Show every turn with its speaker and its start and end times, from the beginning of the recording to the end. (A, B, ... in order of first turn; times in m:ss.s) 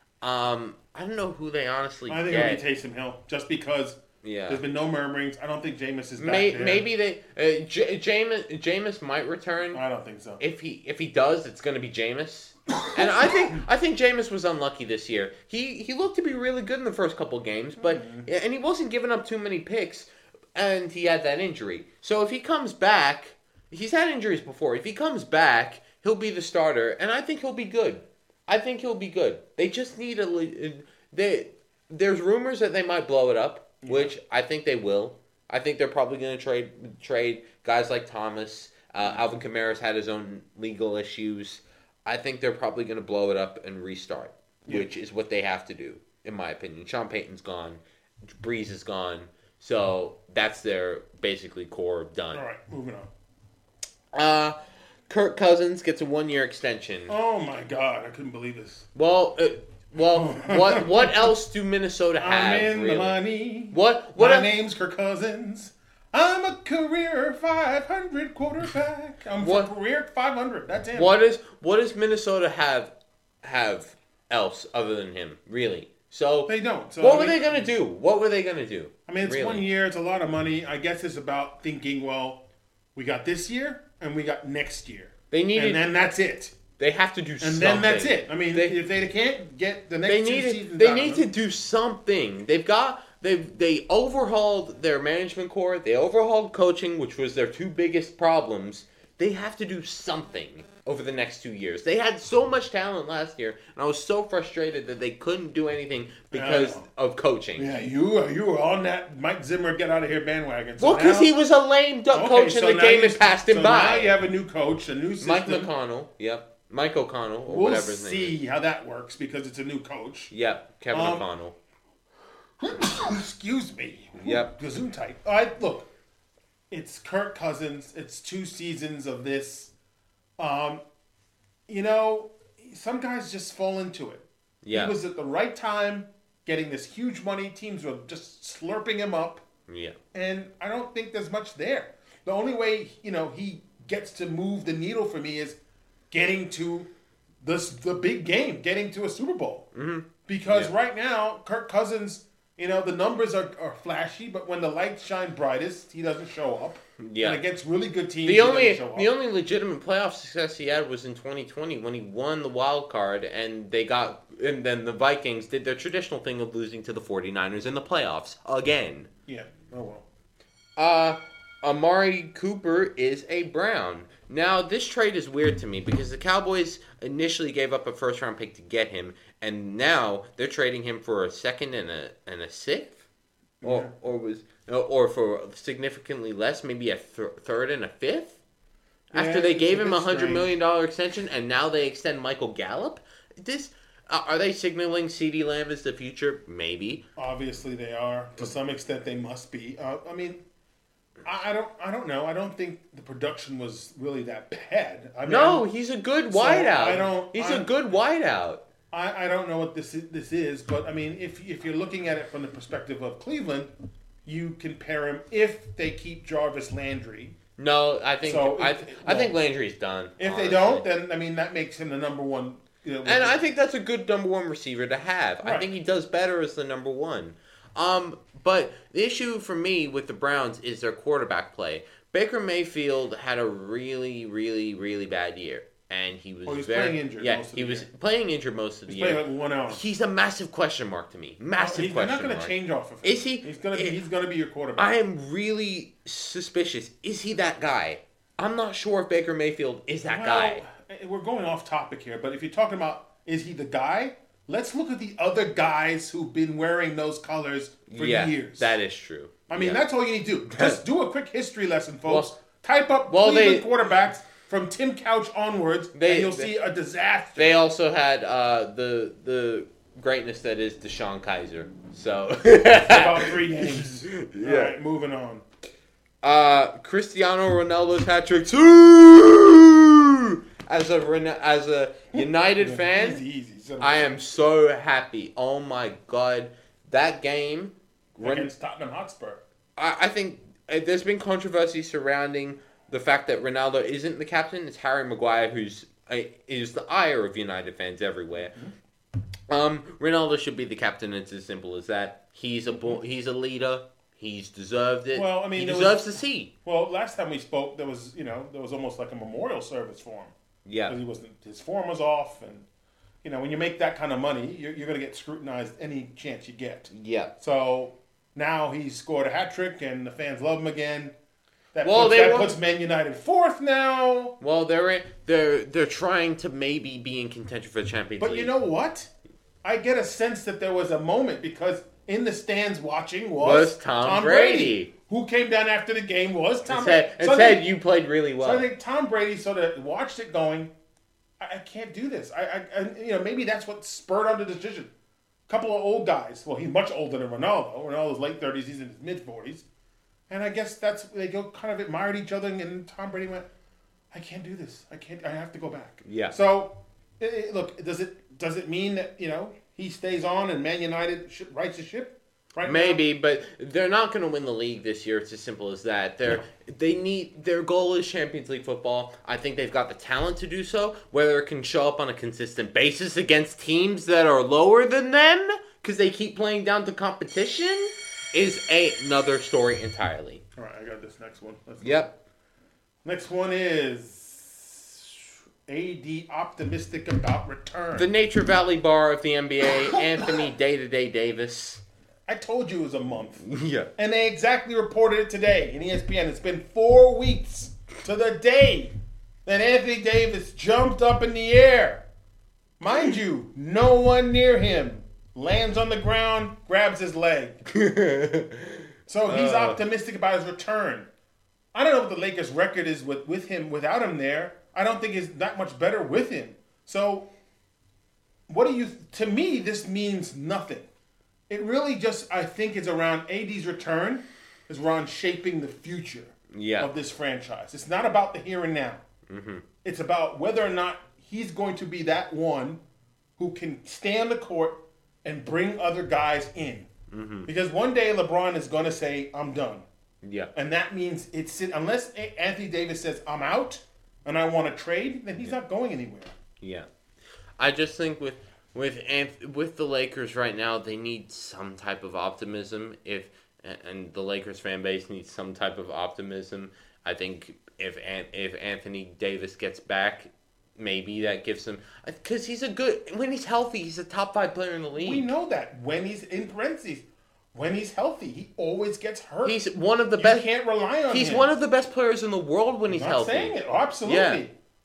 0:00.2-0:02.6 A
0:02.1-0:06.9 B
0:04.2-0:04.6 A
0:06.2-0:09.8 A
0:09.7-0:10.4 B
0:10.4-0:52.4 A
0:13.0-0:13.6 B
0:17.8-0:18.3 B
0:33.8-0:34.1 B
0:44.6-0:44.9 B
0:52.3-0:53.1 B
0:54.1-0:54.6 A
0:55.1-0:57.1 A
0:57.1-0:58.9 B
0:58.9-1:03.2 A
1:00.1-1:01.3 B
1:02.2-1:11.1 B
1:03.7-1:04.5 A
1:09.4-1:09.7 A
1:10.9-1:19.6 A
1:16.5-1:17.7 B
1:19.1-1:22.4 B
1:22.9-1:26.6 B
1:25.3-1:25.9 A
1:26.8-1:28.8 A
1:27.4-1:31.3 B
1:30.0-1:47.7 A
1:46.3-1:46.8 B
1:47.6-1:51.3 B
1:50.8-1:54.2 A
1:52.1-1:55.7 B
1:55.2-1:58.4 A
1:57.5-2:00.3 B
2:00.3-2:01.5 A
2:00.9-2:01.2 B
2:02.6-2:05.9 B
2:04.2-2:04.5 A
2:06.7-2:09.7 B
2:10.4-2:10.8 B
2:11.7-2:19.4 B
2:14.6-2:15.0 A
2:19.7-2:20.0 A
2:20.1-2:25.6 B
2:26.1-2:26.9 B
2:27.4-2:29.7 B
2:29.7-2:30.7 A
2:30.3-2:39.1 B
2:37.0-2:37.4 A
2:38.2-2:49.1 A
2:49.3-2:50.0 B
2:50.8-3:03.0 A
3:03.6-3:03.9 B
3:03.6-3:08.4 A
3:09.1-3:10.5 B
3:09.1-3:17.0 A
3:17.2-3:20.4 B
3:21.2-3:25.6 B
3:25.2-3:28.6 A
3:26.3-3:27.7 B
3:28.9-3:33.7 B
3:34.2-3:37.4 B
3:37.6-3:40.8 A
3:38.2-3:39.4 B
3:40.2-3:43.4 B
3:43.0-4:04.0 A
3:45.4-3:45.7 B
3:56.4-3:57.9 B
3:58.9-3:59.8 B
4:01.6-4:04.9 B
4:04.8-4:10.6 A
4:10.0-4:18.8 B
4:17.9-4:19.8 A
4:19.5-4:27.5 B
4:20.5-4:20.8 A
4:22.1-4:22.3 A
4:23.1-4:23.7 A
4:25.9-4:26.5 A
4:27.4-4:34.8 A
4:32.8-4:35.4 B
4:36.2-4:43.2 A
4:42.1-4:44.1 B
4:43.8-4:48.5 A
4:48.2-4:49.4 B
4:49.8-4:58.5 A
4:58.3-4:58.7 B
4:59.5-5:06.5 A
5:05.1-5:10.3 B
5:10.6-5:11.0 A
5:10.9-5:12.6 B
5:13.2-5:21.1 B
5:16.9-5:17.3 A
5:21.7-5:24.4 B
5:21.8-5:22.6 A
5:24.4-5:28.5 A
5:28.2-5:29.1 B
5:29.6-5:37.6 B
5:33.4-5:34.9 A
5:36.7-5:38.6 A
5:38.4-5:40.7 B
5:41.4-5:44.9 B
5:45.5-5:49.6 B
5:50.3-5:53.5 B
5:54.1-6:03.0 B
5:56.0-5:56.3 A
6:02.6-6:20.4 A
6:20.6-6:22.1 B
6:21.8-6:22.1 A
6:23.0-6:28.1 B
6:28.0-6:31.8 A
6:30.0-6:30.2 B
6:32.3-6:33.4 B
6:33.4-6:33.9 A
6:34.0-6:38.9 B
6:39.4-6:42.0 B
6:42.8-6:47.6 B
6:47.7-6:49.8 A
6:49.1-6:51.1 B
6:51.7-6:57.3 B
6:58.5-7:00.9 B
7:01.5-7:09.0 B
7:06.5-7:06.9 A
7:09.3-7:09.6 A
7:09.8-7:12.8 B
7:13.4-7:16.9 B
7:17.1-7:17.5 A
7:17.4-7:19.8 B
7:20.2-7:20.5 A
7:20.5-7:26.3 B
7:26.6-7:26.9 A
7:27.6-7:45.3 A
7:45.0-7:49.6 B
7:49.4-7:50.5 A
7:50.2-7:51.5 B
7:51.1-7:53.5 A
7:52.9-7:54.5 B
7:54.0-7:54.4 A